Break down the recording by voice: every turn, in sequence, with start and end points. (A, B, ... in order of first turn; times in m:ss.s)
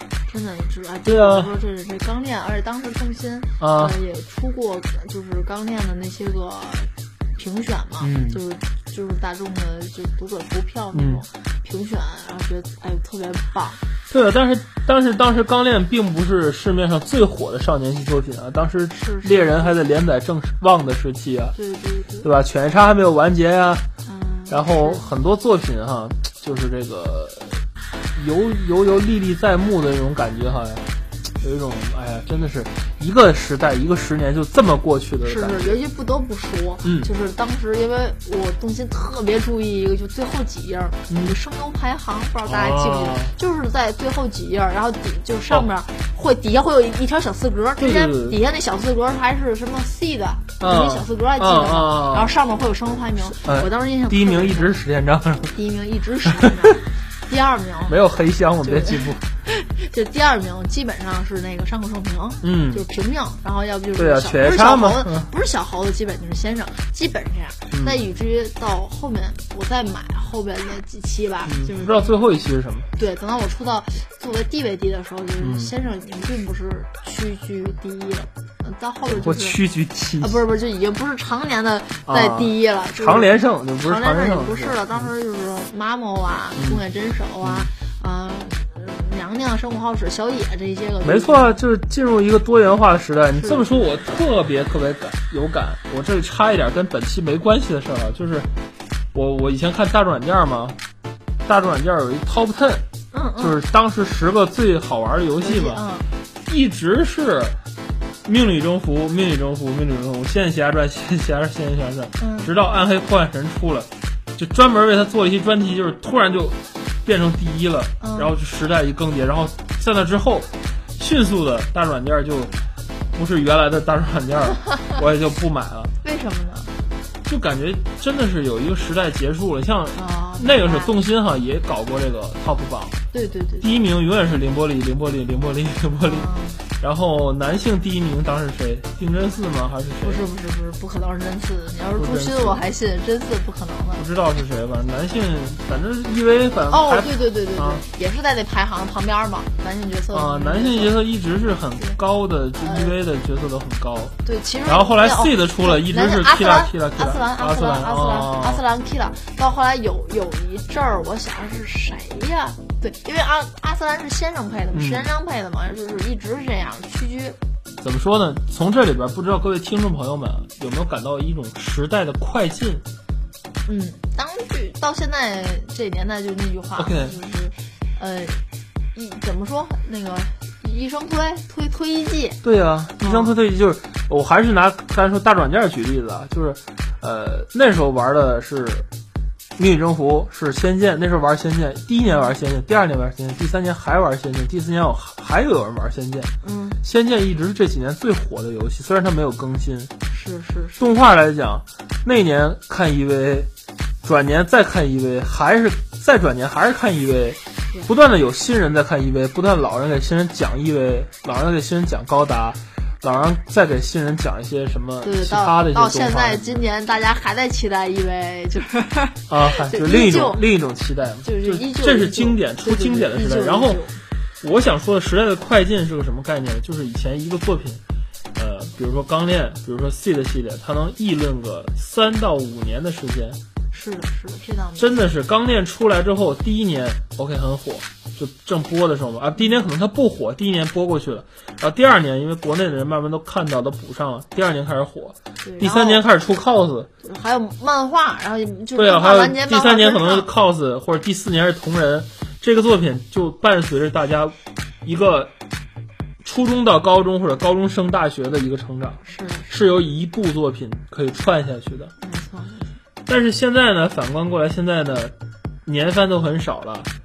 0:00.3-0:13.8 A
0:01.0-0:01.5 B
0:03.6-0:04.0 B
0:08.0-0:08.4 B
0:10.9-0:11.2 B
0:14.1-0:21.6 B
0:18.9-0:19.7 A
0:21.5-0:22.3 A
0:22.2-0:23.8 B
0:24.0-0:25.1 A
0:24.5-0:30.8 B
0:31.4-0:35.8 B
0:35.2-0:54.7 A
0:36.8-0:37.1 B
0:41.1-0:41.4 B
0:42.4-0:43.3 B
0:47.8-0:48.4 B
0:50.6-0:52.3 B
0:53.3-0:55.5 B
0:55.5-0:58.0 A
0:57.9-0:59.2 B
0:58.6-1:12.1 A
1:02.4-1:02.8 B
1:03.9-1:05.3 B
1:07.7-1:08.0 B
1:11.4-1:12.9 B
1:13.0-1:19.6 A
1:15.4-1:15.7 B
1:19.1-1:20.4 B
1:20.2-1:31.5 A
1:22.0-1:25.0 B
1:26.6-1:26.8 B
1:27.4-1:27.7 B
1:31.0-1:38.5 B
1:33.4-1:34.0 A
1:39.1-1:40.8 B
1:41.4-1:42.8 B
1:43.1-1:43.6 A
1:43.4-1:45.8 B
1:45.4-1:46.1 A
1:46.5-1:47.6 B
1:48.2-2:02.5 B
1:52.2-1:52.5 A
1:58.0-1:58.3 A
2:03.1-2:05.9 B
2:06.0-2:06.7 A
2:07.2-2:13.0 B
2:09.9-2:10.9 A
2:13.1-2:13.7 A
2:13.6-2:16.3 B
2:16.0-2:16.6 A
2:16.8-2:20.2 B
2:20.0-2:24.0 A
2:22.0-2:22.6 B
2:24.0-2:27.8 B
2:26.7-2:31.0 A
2:30.1-2:34.1 B
2:32.6-2:33.0 A
2:34.2-2:47.4 A
2:34.6-2:38.6 B
2:44.7-2:45.1 B
2:47.8-2:52.8 B
2:53.6-2:58.4 A
2:56.8-2:57.2 B
2:58.9-3:02.4 A
3:02.4-3:08.9 B
3:03.0-3:03.3 A
3:09.6-3:19.9 B
3:12.0-3:12.3 A
3:16.4-3:16.8 A
3:20.1-3:20.9 A
3:20.8-3:23.5 B
3:24.0-3:36.6 B
3:35.0-3:40.4 A
3:39.3-3:43.8 B
3:41.2-3:44.0 A
3:44.4-3:47.8 B
3:48.3-3:53.4 B
3:53.7-3:55.0 A
3:54.8-4:06.9 B
4:05.4-4:06.0 A
4:07.0-4:10.3 A
4:08.7-4:15.3 B
4:16.2-4:21.9 B
4:19.0-4:19.6 A
4:22.0-4:22.8 A
4:23.0-4:26.9 B